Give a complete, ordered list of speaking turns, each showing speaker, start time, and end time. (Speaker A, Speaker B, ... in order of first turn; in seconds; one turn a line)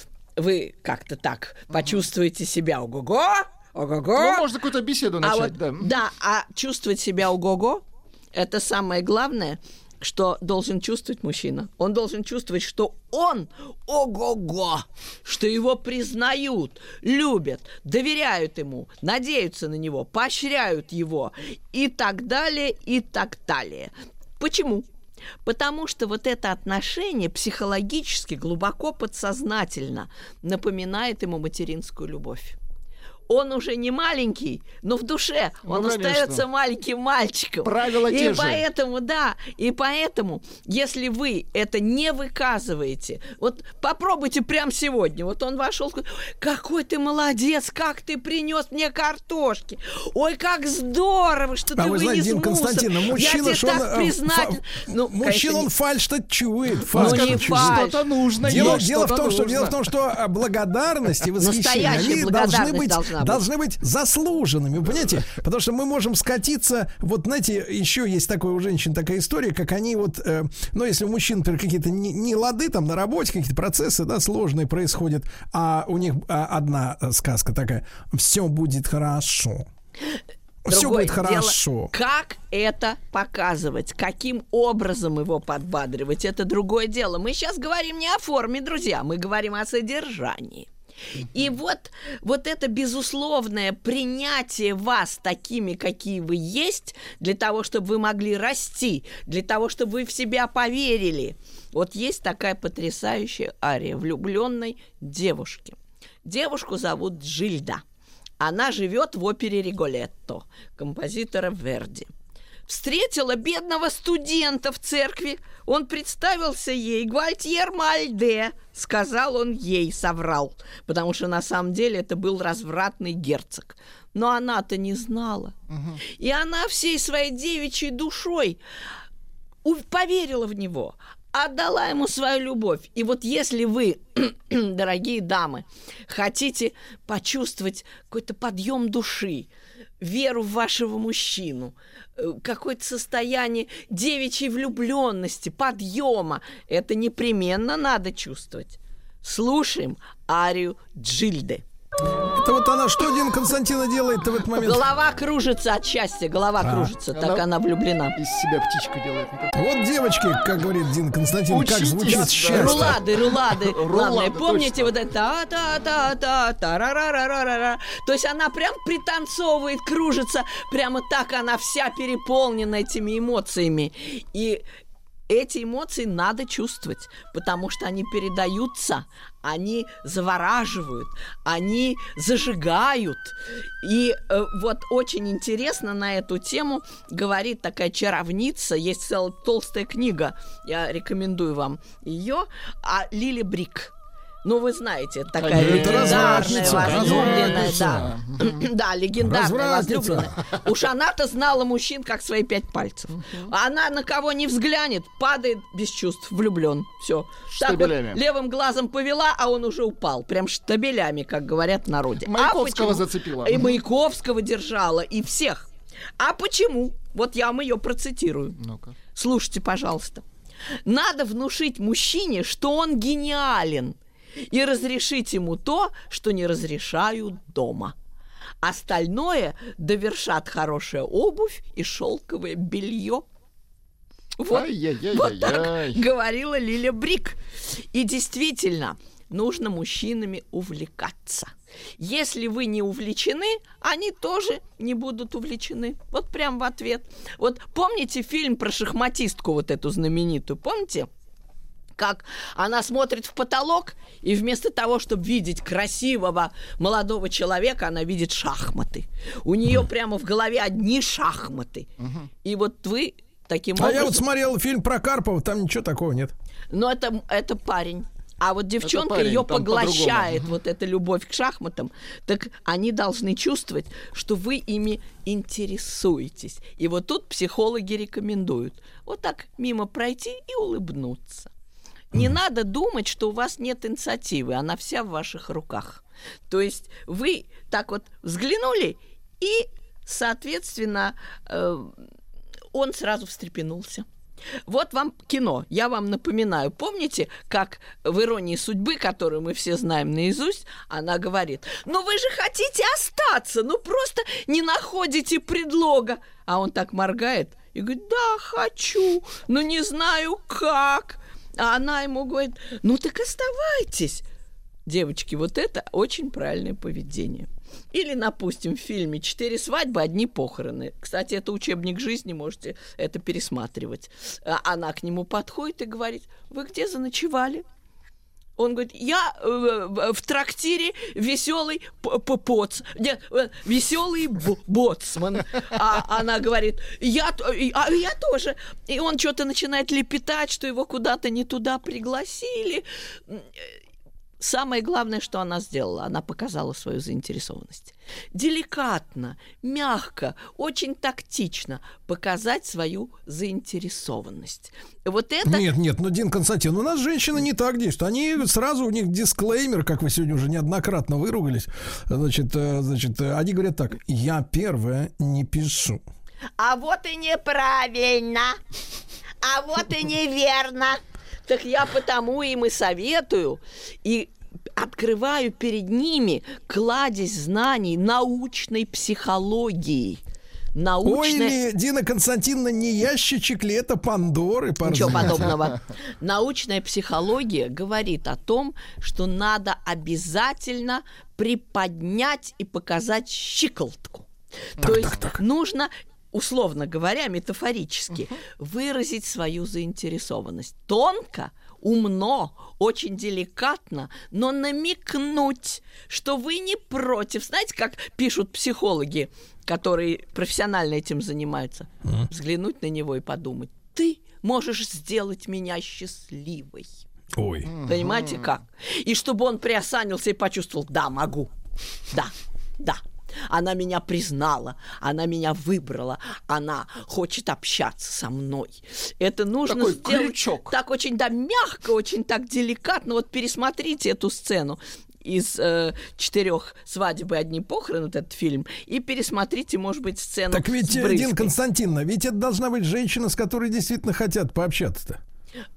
Speaker A: 0.4-4.5
Speaker B: 4.2-5.9
Speaker A: 5.2-24.9
Speaker A: 25.4-32.6
Speaker A: 33.3-55.7
Speaker B: 35.6-36.4
Speaker B: 37.6-38.6
Speaker C: 51.8-57.9
Speaker A: 56.9-58.0
Speaker B: 56.9-59.8
Speaker C: 58.4-79.7
Speaker A: 61.4-63.4
Speaker C: 80.7-81.9
Speaker A: 80.7-107.8
Speaker A: 108.4-112.1
Speaker A: 112.7-128.6
Speaker B: 125.7-126.0
Speaker A: 129.6-139.5
Speaker A: 140.0-151.6
Speaker C: 152.3-154.8
Speaker A: 154.6-158.2
Speaker C: 156.6-156.9
Speaker B: 157.1-157.5
Speaker B: 158.2-159.5
Speaker C: 159.5-163.0
Speaker B: 161.5-164.9
Speaker A: 162.5-174.6
Speaker A: 175.3-193.9
Speaker A: 194.4-218.6
Speaker B: 195.4-198.6
Speaker C: 195.5-198.1
Speaker C: 199.2-200.3
Speaker B: 207.5-208.2
Speaker B: 212.2-213.8
Speaker B: 218.6-218.9
Speaker A: 219.2-220.2
Speaker A: 220.8-227.9
Speaker A: 228.6-233.3
Speaker A: 234.4-251.1
Speaker B: 234.5-236.0
Speaker A: 252.0-261.9
Speaker B: 262.0-262.3
Speaker A: 262.4-264.2
Speaker C: 263.8-266.3
Speaker A: 266.7-281.5
Speaker B: 268.8-270.5
Speaker A: 282.1-292.0
Speaker A: 292.7-294.1
Speaker A: 294.7-314.2
Speaker A: 314.9-327.6
Speaker A: 328.6-343.8
Speaker A: 344.4-355.7
Speaker C: 355.4-366.0
Speaker A: 366.6-368.6
Speaker A: 369.4-380.2
Speaker A: 380.8-381.6
Speaker C: 381.0-385.5
Speaker A: 384.8-416.9
Speaker C: 394.8-395.4
Speaker C: 417.4-417.7
Speaker B: 417.7-418.3
Speaker A: 417.9-421.5
Speaker A: 422.1-441.5
Speaker B: 429.7-430.7
Speaker C: 440.5-445.2